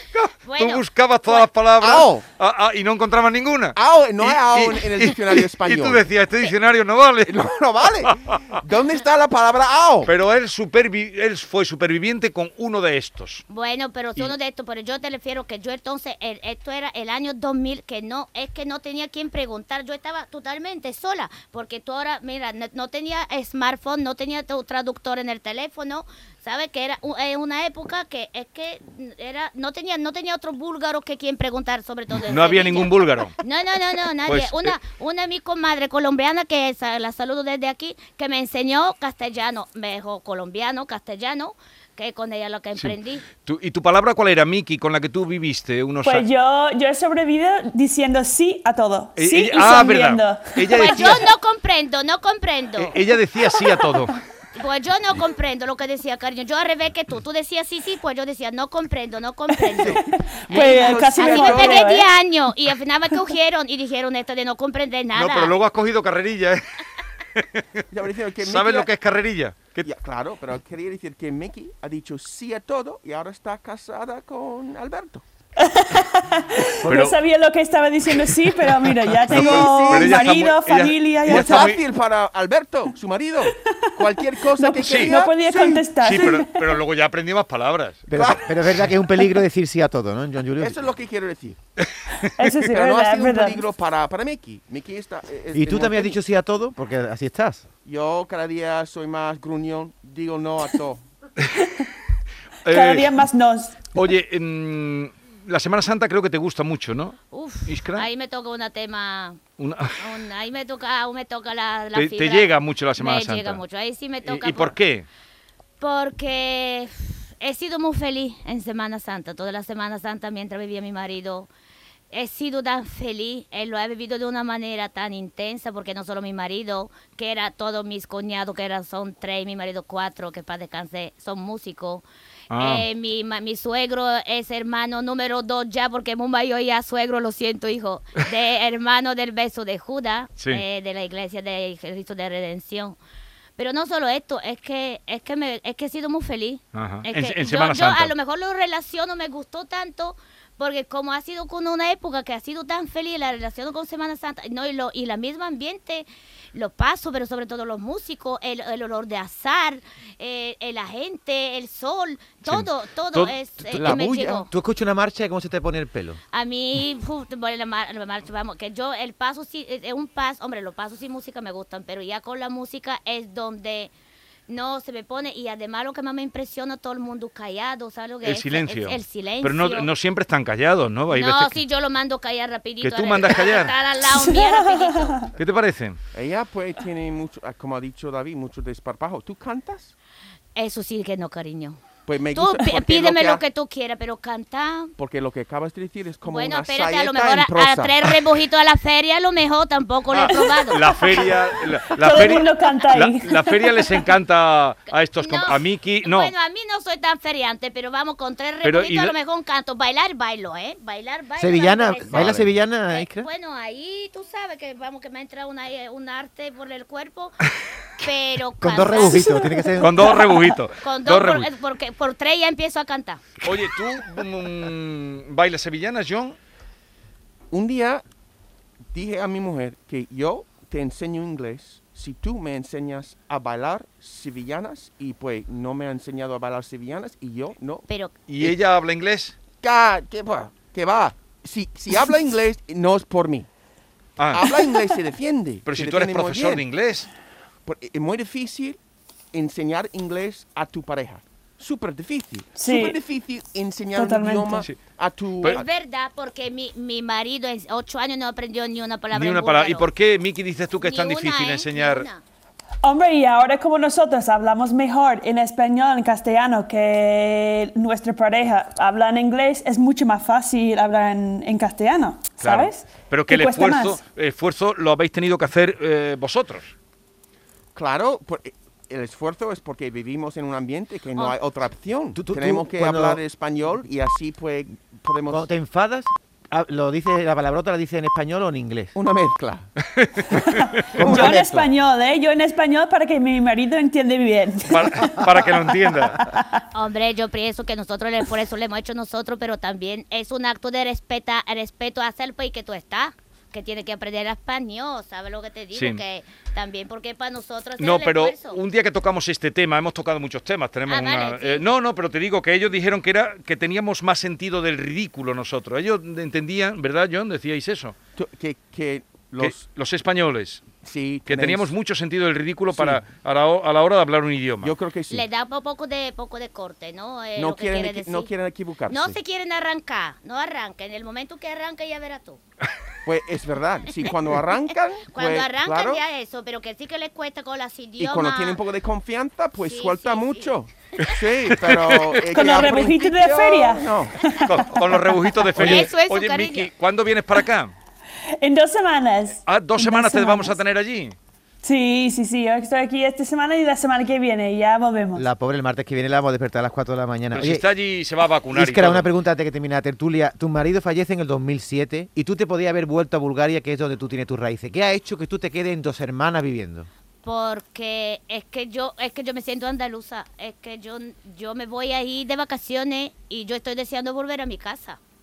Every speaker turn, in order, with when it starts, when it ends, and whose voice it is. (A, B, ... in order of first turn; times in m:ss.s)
0:00.1-0:07.4 A
0:00.4-0:01.5 B
0:01.8-0:02.2 C
0:03.7-0:06.0 C
0:07.2-0:10.1 C
0:08.0-0:08.3 A
0:10.0-0:13.4 A
0:13.5-0:43.2 B
0:32.2-0:33.4 A
0:34.2-0:34.8 A
0:42.8-0:46.2 A
0:46.0-0:51.0 D
0:49.2-0:51.3 A
0:50.7-0:53.0 B
0:52.8-0:54.2 A
0:54.5-1:05.5 B
0:59.8-1:01.8 C
0:59.9-1:02.1 D
1:05.1-1:06.8 A
1:07.3-1:07.8 A
1:07.9-1:08.9 C
1:08.4-1:09.9 A
1:09.8-1:15.2 C
1:15.6-1:21.8 D
1:16.8-1:17.2 A
1:18.1-1:21.8 A
1:19.2-1:20.4 C
1:21.2-1:25.9 C
1:23.6-1:26.8 D
1:24.8-1:25.1 A
1:26.0-1:28.2 A
1:28.1-1:30.8 E
1:28.1-1:28.5 C
1:30.6-1:31.6 C
1:31.8-1:32.3 A
1:32.2-1:33.6 D
1:32.6-1:36.2 C
1:35.5-1:37.6 E
1:37.8-1:41.0 C
1:41.6-1:41.8 D
1:42.6-1:43.1 A
1:42.7-1:43.8 D
1:43.9-1:48.1 A
1:47.3-1:49.4 B
1:49.6-1:50.0 A
1:50.0-1:54.7 B
1:51.9-1:53.6 A
1:54.2-1:55.0 A
1:55.8-2:01.5 B
2:02.1-2:12.0 B
2:12.5-2:12.8 A
2:12.6-2:23.0 B
2:23.6-2:44.5 B
2:26.7-2:28.1 A
2:42.4-2:43.8 A
2:43.7-2:44.5 C
2:43.8-2:46.2 E
2:46.3-2:53.9 B
2:54.5-2:59.9 B
2:58.2-3:01.6 A
3:01.1-3:05.2 B
3:02.8-3:03.7 A
3:04.0-3:05.3 D
3:05.4-3:06.0 A
3:06.1-3:09.9 C
3:10.6-3:11.8 B
3:12.0-3:13.4 C
3:12.3-3:14.9 B
3:15.0-3:18.1 C
3:16.2-3:20.9 B
3:20.1-3:26.3 A
3:20.3-3:24.0 D
3:25.2-3:37.4 B
3:28.6-3:29.1 A
3:31.4-3:33.3 E
3:32.1-3:32.5 A
3:38.0-3:39.4 B
3:38.6-3:40.2 E
3:39.1-3:39.9 D
3:39.8-3:41.5 A
3:40.8-3:43.2 B
3:43.4-3:46.4 A
3:47.5-3:48.0 C
3:48.9-3:57.9 C
3:57.9-3:58.1 B
3:58.3-3:59.3 A
3:59.6-4:03.5 C
4:04.2-4:04.4 A
4:04.3-4:06.6 C
4:05.6-4:07.1 A
4:07.6-4:08.8 C
4:09.3-4:15.6 C
4:12.6-4:13.0 D
4:13.9-4:14.7 D
4:15.4-4:19.9 B
4:19.1-4:22.1 A
4:20.8-4:22.2 B
4:22.8-4:34.0 D
4:32.4-4:36.7 A
4:37.7-4:45.4 C
4:42.2-4:43.2 E
4:45.3-4:48.9 E
4:48.9-4:49.7 C
4:49.9-4:50.8 A
4:50.4-4:56.6 D
4:50.9-4:51.6 C
4:51.0-4:51.6 E
4:54.7-4:56.2 A
4:56.7-5:08.6 B
5:05.7-5:06.0 A
5:07.8-5:17.9 A
5:10.9-5:11.6 B
5:18.2-5:19.6 C
5:19.4-5:20.6 A
5:20.8-5:21.7 C
5:21.2-5:24.7 A
5:22.7-5:23.0 C
5:24.6-5:25.2 C
5:25.1-5:28.3 B
5:27.3-5:29.2 C
5:28.9-5:32.4 B
5:33.0-5:36.0 C
5:35.1-5:38.6 B
5:38.0-5:44.2 C
5:39.6-5:40.5 B
5:41.0-5:42.3 A
5:42.3-5:45.5 D
5:44.4-5:47.7 A
5:45.6-5:46.7 B
5:45.6-5:45.8 E
5:48.4-5:50.6 D
5:49.4-5:51.2 A
5:51.6-5:55.2 D
5:55.1-5:57.7 E
5:57.3-5:59.1 A
5:58.5-6:06.9 E
6:07.2-6:15.0 B